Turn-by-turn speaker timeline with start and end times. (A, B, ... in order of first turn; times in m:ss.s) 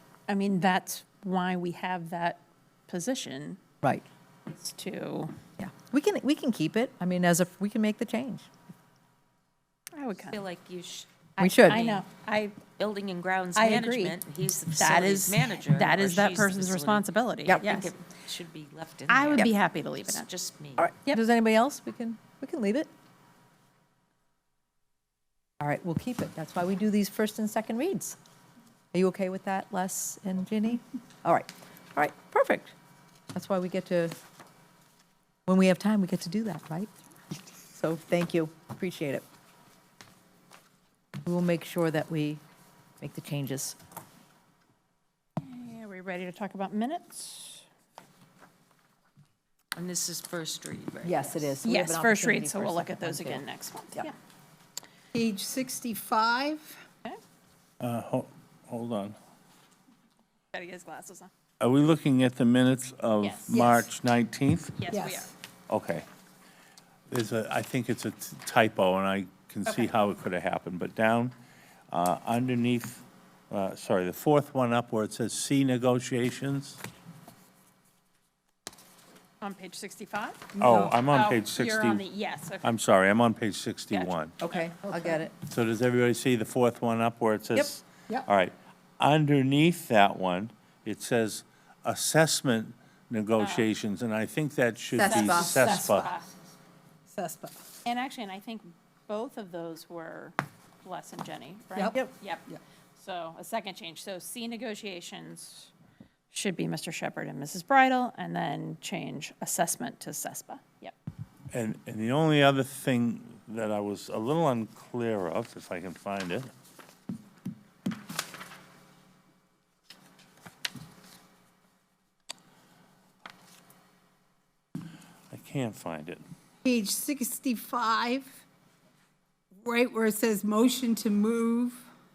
0:00.3-0:03.6 A
0:04.5-0:05.3 A
0:05.6-0:08.5 B
0:10.0-0:10.4 A
0:10.3-0:12.0 C
0:11.4-0:11.9 B
0:11.4-0:12.6 A
0:12.8-0:20.9 C
0:13.6-0:14.2 A
0:14.8-0:17.9 A
0:19.1-0:20.3 A
0:20.8-0:22.9 B
0:25.6-0:28.2 B
0:28.9-0:32.7 B
0:33.3-0:34.2 B
0:35.5-0:36.9 B
0:37.7-0:39.2 B
0:41.2-0:42.4 B
0:43.0-0:43.8 B
0:45.4-0:47.6 A
0:49.8-0:51.6 C
0:51.0-0:53.4 B
0:51.6-0:54.1 A
0:55.1-0:56.8 D
0:57.8-0:59.2 E
1:00.5-1:01.3 A
1:01.6-1:04.8 E
1:03.2-1:03.6 A
1:03.5-1:03.9 D
1:04.8-1:05.3 A
1:04.9-1:05.3 D
1:05.7-1:06.1 E
1:07.1-1:11.4 E
1:09.7-1:09.9 A
1:11.9-1:16.8 E
1:19.4-1:22.7 A
1:20.6-1:22.0 E
1:20.6-1:20.9 D
1:22.6-1:24.4 E
1:23.9-1:24.7 A
1:24.4-1:25.3 B
1:25.4-1:36.1 E
1:33.4-1:33.7 A
1:35.0-1:35.9 D
1:35.0-1:36.3 A
1:35.1-1:35.6 B
1:37.1-1:37.6 D
1:37.8-1:45.7 A
1:41.7-1:42.6 D
1:46.3-1:51.0 A
1:51.5-1:56.5 E
2:05.3-2:06.2 E
2:06.6-2:08.4 D
2:09.6-2:11.8 D